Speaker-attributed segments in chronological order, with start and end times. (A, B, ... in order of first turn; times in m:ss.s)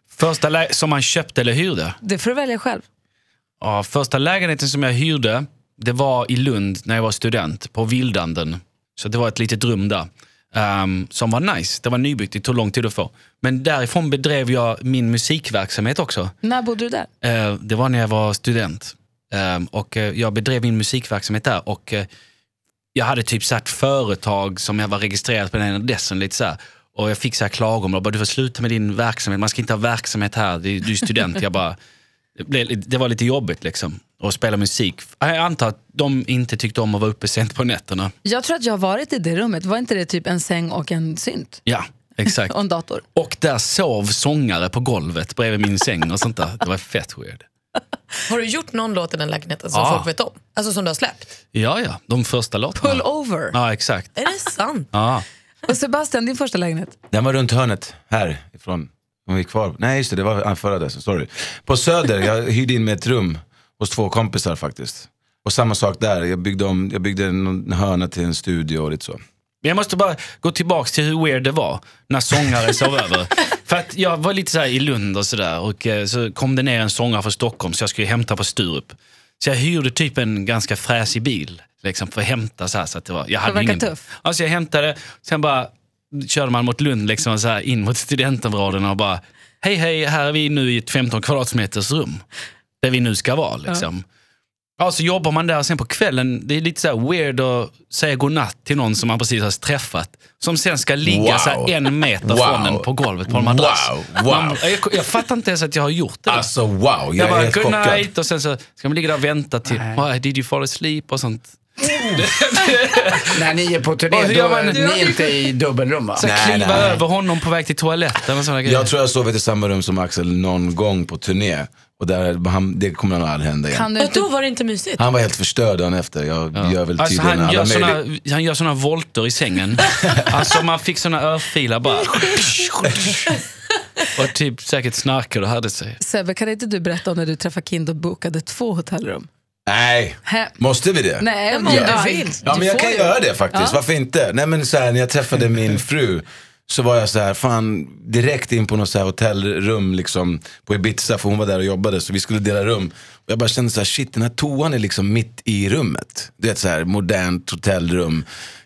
0:00.1-0:02.0 A
0:02.0-0:02.8 B
0:03.6-0:16.3 A
0:16.4-0:17.1 B
0:17.2-0:22.1 A
0:22.9-0:31.8 A
0:32.4-0:38.1 A
0:38.2-0:41.6 B
0:41.7-0:42.6 A
0:42.2-0:43.0 B
0:43.2-0:47.4 A
0:48.3-0:51.3 C
0:49.7-0:50.1 A
0:51.5-0:54.2 A
0:52.8-0:53.6 B
0:54.2-0:54.9 C
0:54.9-0:55.3 A
0:55.7-0:57.0 B
0:57.1-1:09.2 D
1:09.6-1:32.2 A
1:23.4-1:24.0 B
1:32.8-1:34.0 A
1:34.8-1:46.5 A
1:41.0-1:44.6 D
1:46.3-1:48.1 D
1:47.2-1:53.3 A
1:49.7-1:50.0 E
1:53.3-1:56.2 E
1:54.1-1:55.1 A
1:56.2-1:58.9 A
1:56.2-1:57.0 D
1:58.6-2:03.9 D
2:03.7-2:04.3 B
2:04.0-2:05.0 C
2:05.0-2:08.0 D
2:06.6-2:13.3 A
2:14.2-2:16.0 A
2:16.0-2:19.3 B
2:19.7-2:38.2 D
2:20.3-2:20.6 B
2:21.2-2:22.9 B
2:21.5-2:23.1 C
2:23.5-2:23.8 B